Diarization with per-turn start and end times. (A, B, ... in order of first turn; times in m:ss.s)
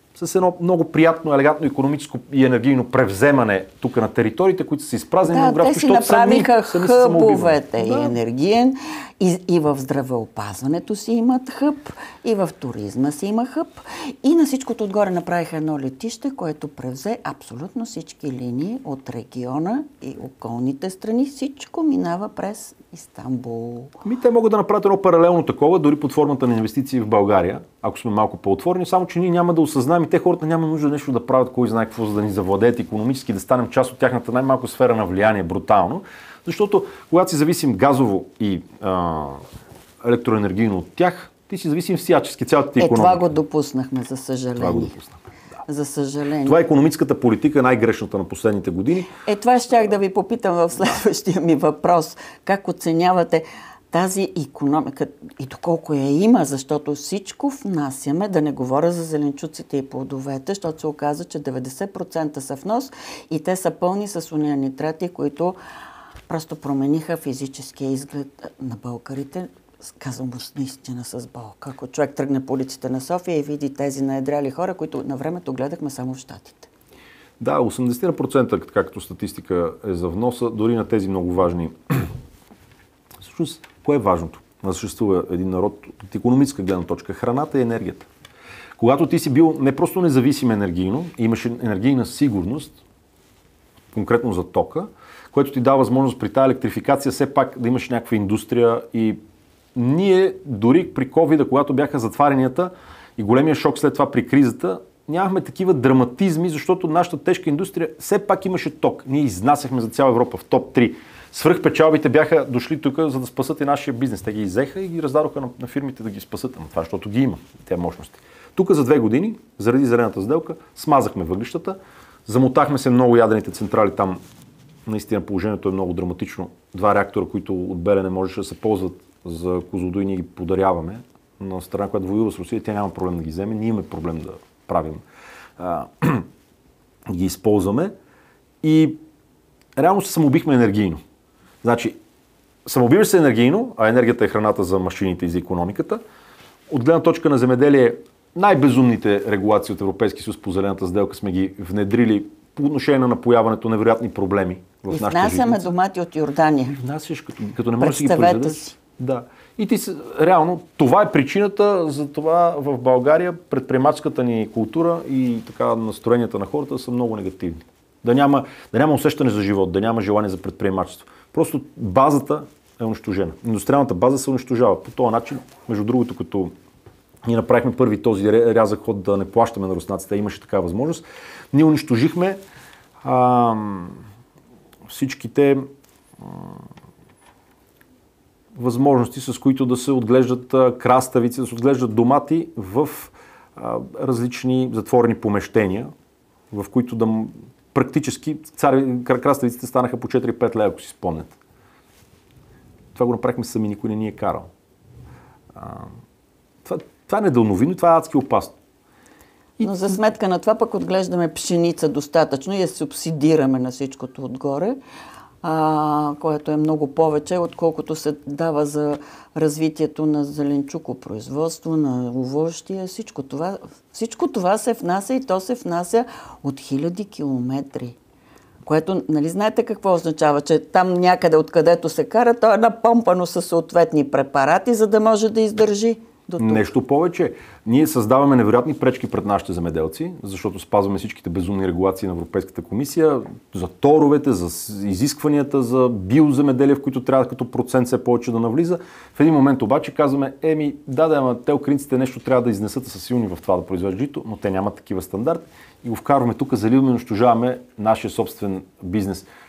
0:00.2-0:08.2 A
0:05.2-0:23.9 B
0:24.0-0:39.4 A
0:40.0-0:43.2 A
0:42.8-0:45.0 B
0:44.6-0:45.2 A
0:45.7-0:46.6 B
0:46.4-0:49.1 A
0:49.2-1:05.6 B
1:06.3-1:16.7 B
1:17.4-1:22.1 A
1:23.2-1:28.1 A
1:28.8-1:32.8 A
1:33.9-1:39.2 A
1:39.8-2:04.2 A
2:04.9-2:15.0 A
2:15.6-2:16.3 A
2:17.1-2:17.9 A
2:18.6-2:19.0 A
2:19.8-2:21.0 A
2:21.6-2:22.0 A
2:22.6-2:26.0 A
2:26.7-2:35.7 A
2:34.9-2:36.8 B
2:36.7-2:56.5 A
2:37.8-2:38.7 B
2:57.2-3:02.4 A
3:03.0-3:04.0 A
3:04.9-3:05.6 A
3:06.2-3:06.6 A
3:08.6-3:15.9 A
3:16.5-3:21.4 A
3:23.0-3:24.5 A
3:25.5-3:25.9 A
3:26.6-3:28.5 A
3:29.6-3:34.8 B
3:35.4-3:48.0 B
3:48.6-3:56.7 B
3:56.4-4:19.3 A